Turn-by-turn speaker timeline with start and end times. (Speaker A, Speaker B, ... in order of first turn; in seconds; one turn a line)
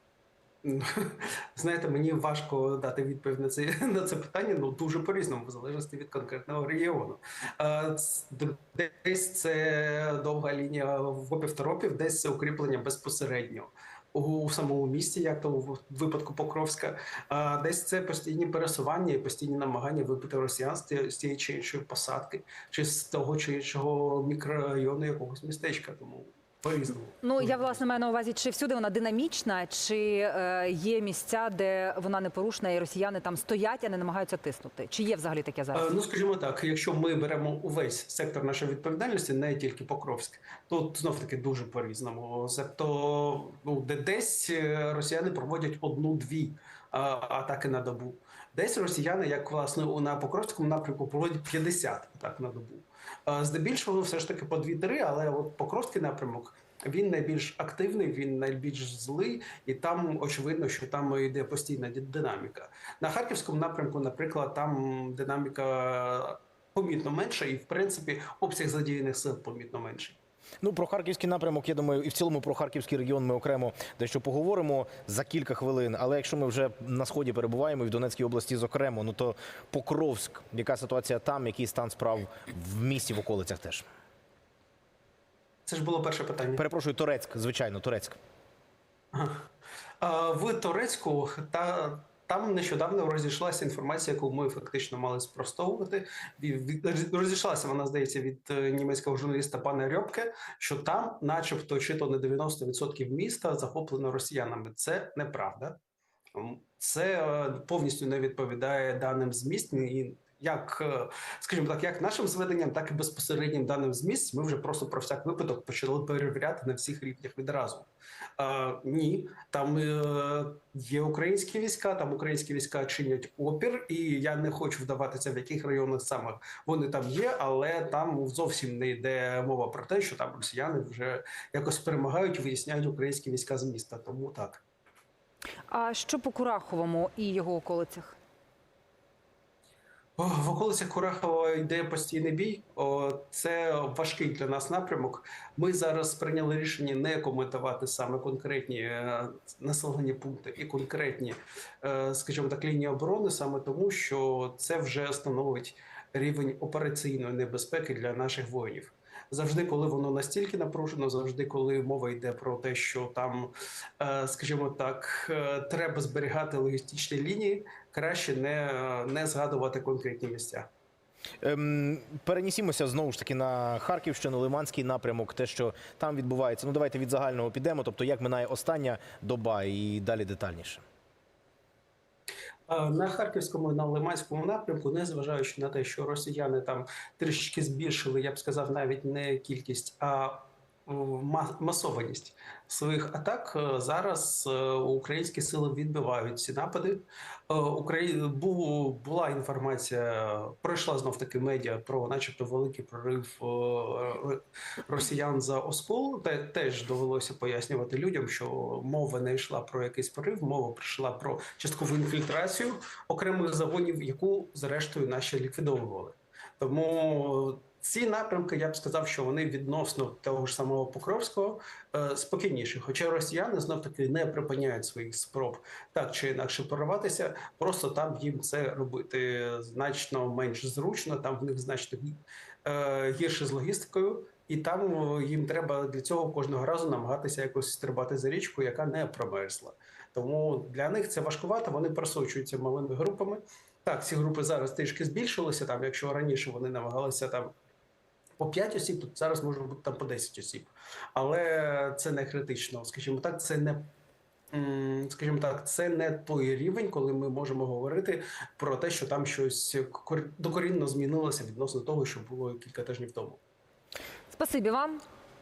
Speaker A: 0.6-27.6
Speaker B: 27.2-35.9
Speaker A: 35.7-70.2
Speaker C: 70.6-83.8
Speaker A: 85.7-86.6
Speaker C: 86.6-88.2
Speaker A: 89.1-89.4
Speaker A: 90.0-105.8
Speaker A: 106.3-134.6
Speaker B: 135.7-138.2
Speaker A: 140.2-170.7
Speaker C: 171.4-180.8
Speaker A: 182.7-247.5
Speaker A: 248.4-253.9
Speaker A: 254.5-263.4
Speaker B: 264.3-265.0